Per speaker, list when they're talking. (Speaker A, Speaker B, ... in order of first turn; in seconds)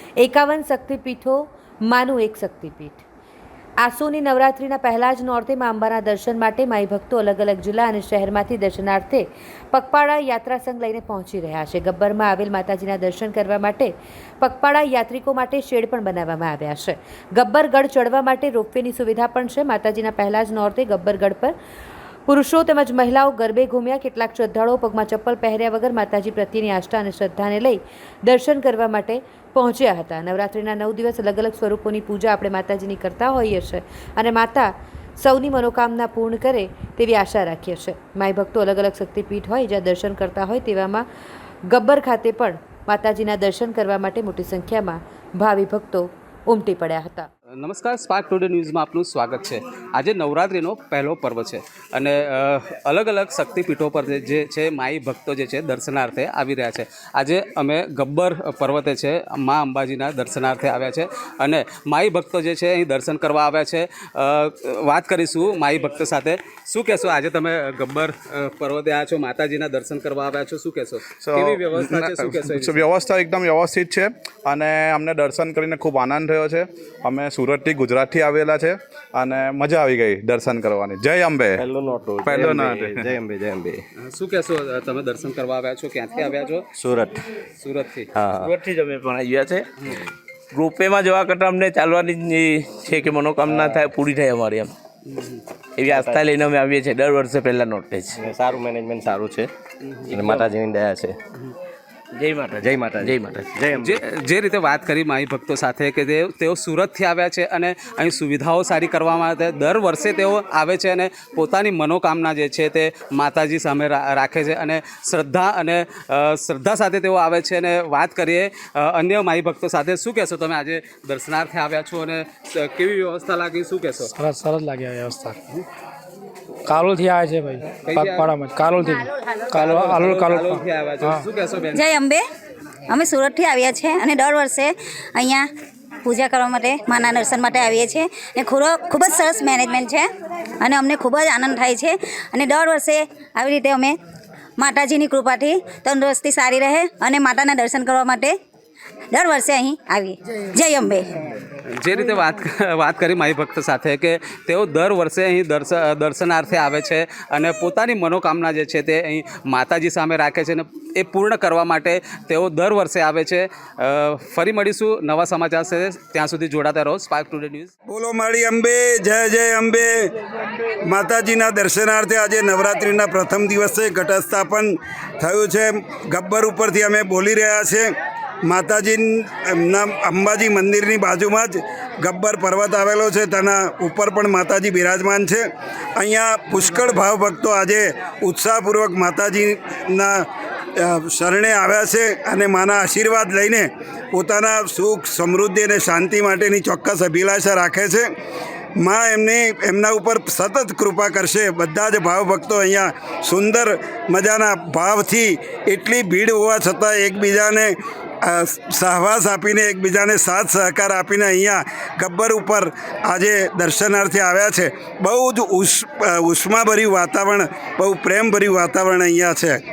Speaker A: 0.2-3.0, 3.8-21.5, 22.3-41.1, 41.7-47.3
Speaker B: 47.6-72.8, 84.0-86.7, 87.6-88.1, 95.1-95.4, 99.8-100.5, 103.8-124.1, 127.8-128.8, 129.5-131.9, 151.7-167.7
Speaker C: 71.2-81.6, 82.2-83.1
Speaker D: 81.6-83.8, 86.8-87.2, 88.2-88.6, 93.4-93.9, 95.8-96.3, 98.1-99.5, 100.1-101.2, 102.6-104.0
Speaker E: 88.2-89.7, 90.5-94.7, 95.8-98.2, 102.2-103.5
Speaker F: 124.1-125.4, 126.7-131.2
Speaker G: 131.8-132.2, 132.9-135.5, 136.1-140.1, 140.6-144.0, 144.6-148.3, 149.1-151.1
Speaker H: 167.9-170.1, 170.8-177.9, 178.4-190.2, 190.8-198.1, 198.8-219.6